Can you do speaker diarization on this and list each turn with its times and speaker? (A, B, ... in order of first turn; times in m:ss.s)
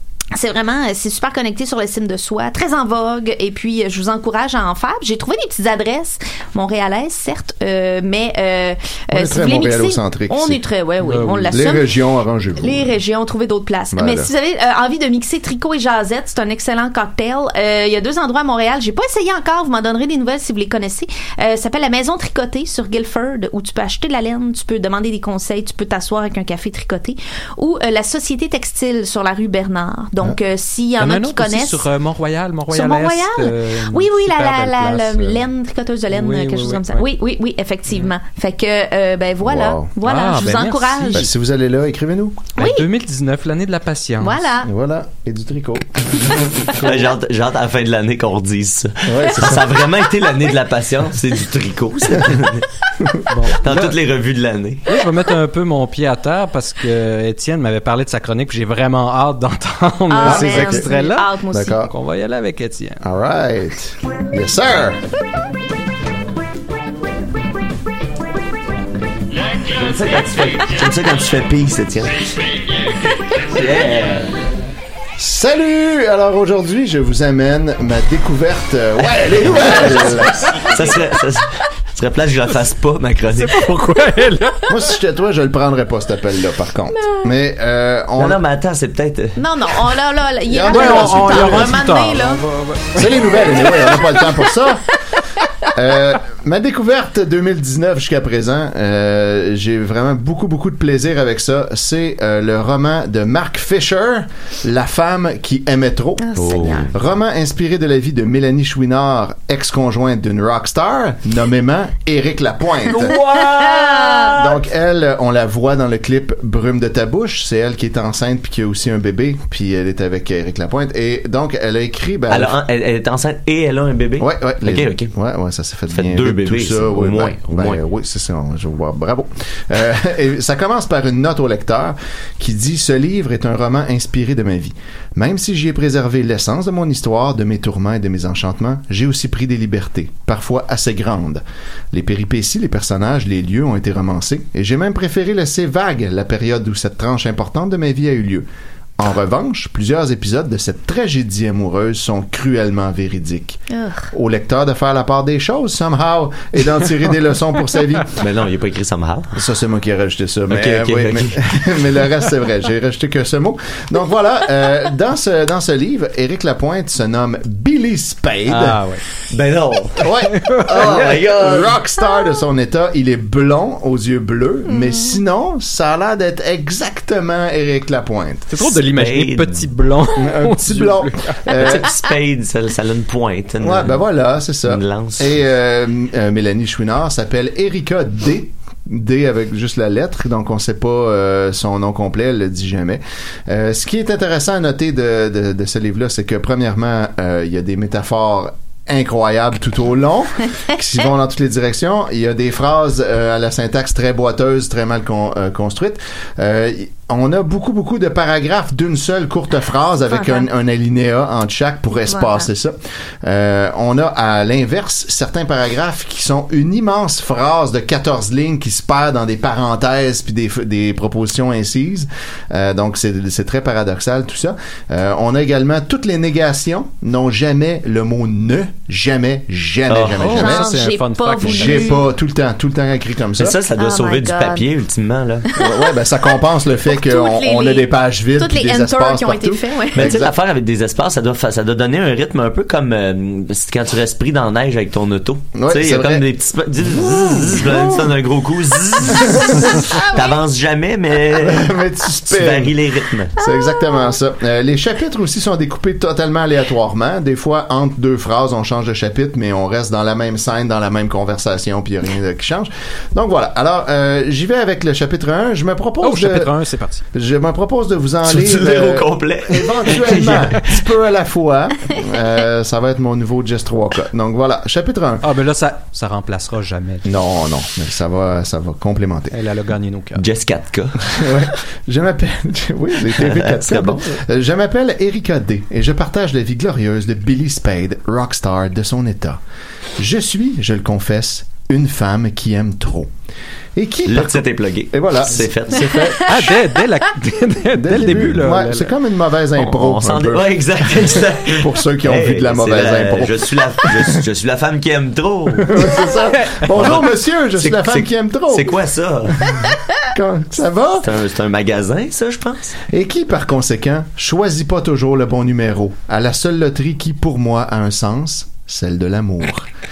0:00.3-0:11.9 A
0:09.1-0:10.6 B
0:11.0-0:11.6 C
0:11.5-0:12.9 B
0:12.6-0:31.9 A
0:13.9-0:14.3 B
0:31.0-0:35.4 C
0:32.7-0:41.3 A
0:36.1-0:37.0 C
0:39.4-0:39.9 B
0:40.0-0:41.3 C
0:41.1-0:42.5 B
0:42.6-0:42.8 A
0:42.6-0:44.4 C
0:44.2-0:44.7 A
0:44.6-0:46.3 B
0:46.8-0:52.7 D
0:49.0-0:49.7 B
0:53.3-0:54.0 C
0:53.6-0:54.9 D
0:54.9-1:01.3 C
1:00.1-1:01.8 A
1:00.2-1:00.9 B
1:01.5-1:01.9 B
1:01.9-1:03.0 C
1:03.0-1:05.0 B
1:09.7-1:12.2 D
1:13.4-1:14.3 D
1:15.2-1:20.7 B
1:19.0-1:23.7 D
1:23.3-1:24.7 C
1:24.7-1:28.4 B
1:26.9-1:27.3 A
1:28.2-1:29.4 D
1:29.4-1:32.4 A
1:30.5-1:31.8 B
1:30.7-1:34.1 C
1:33.0-1:34.8 B
1:35.7-2:02.6 B
1:46.2-1:46.9 A
1:46.4-1:47.0 D
1:52.9-1:54.3 A
2:02.3-2:05.1 D
2:04.2-2:28.4 B
2:05.9-2:07.8 D
2:29.0-2:38.2 B
2:33.7-2:34.1 A
2:38.2-2:39.3 D
2:39.3-2:48.8 B
2:40.5-2:41.6 D
2:48.5-2:49.0 C
2:49.3-2:50.1 D
2:50.0-2:58.6 B
2:50.3-2:51.2 C
2:50.6-2:51.8 D
2:54.7-2:55.2 A
2:58.5-3:01.4 C
2:58.6-2:59.7 D
3:00.2-3:01.9 B
3:01.5-3:04.0 D
3:01.7-3:02.1 A
3:03.6-3:50.7 B
3:04.6-3:05.3 D
3:30.1-3:30.5 A
3:31.9-3:32.5 A
3:49.9-3:50.4 D
3:50.2-3:52.0 C
3:50.3-3:52.0 A
3:51.4-3:53.6 B
3:53.4-3:55.5 D
3:53.8-3:54.7 A
3:55.5-3:55.9 A
3:55.6-4:00.3 B
3:56.8-4:00.2 A
4:00.0-4:11.7 D
4:05.6-4:06.3 B
4:06.8-4:08.1 B
4:09.1-4:09.8 B
4:09.3-4:10.2 A
4:11.3-4:12.8 B
4:12.3-4:13.3 D
4:13.3-4:26.5 B
4:13.5-4:13.8 A
4:26.0-4:27.0 C
4:27.1-4:35.3 B
4:28.2-4:30.7 D
4:35.2-4:37.1 C
4:37.0-4:39.4 B
4:39.3-4:40.2 C
4:40.2-4:41.3 D
4:41.1-4:49.4 B
4:43.1-4:44.1 D
4:50.0-4:53.1 B
4:53.7-4:56.5 B
4:54.1-4:56.0 D
4:56.3-4:58.9 C
4:57.7-5:04.2 B
4:59.6-5:05.9 D
5:05.6-5:08.8 B
5:06.7-5:09.7 D
5:09.3-5:11.1 B
5:11.0-5:12.8 D
5:12.9-5:19.7 B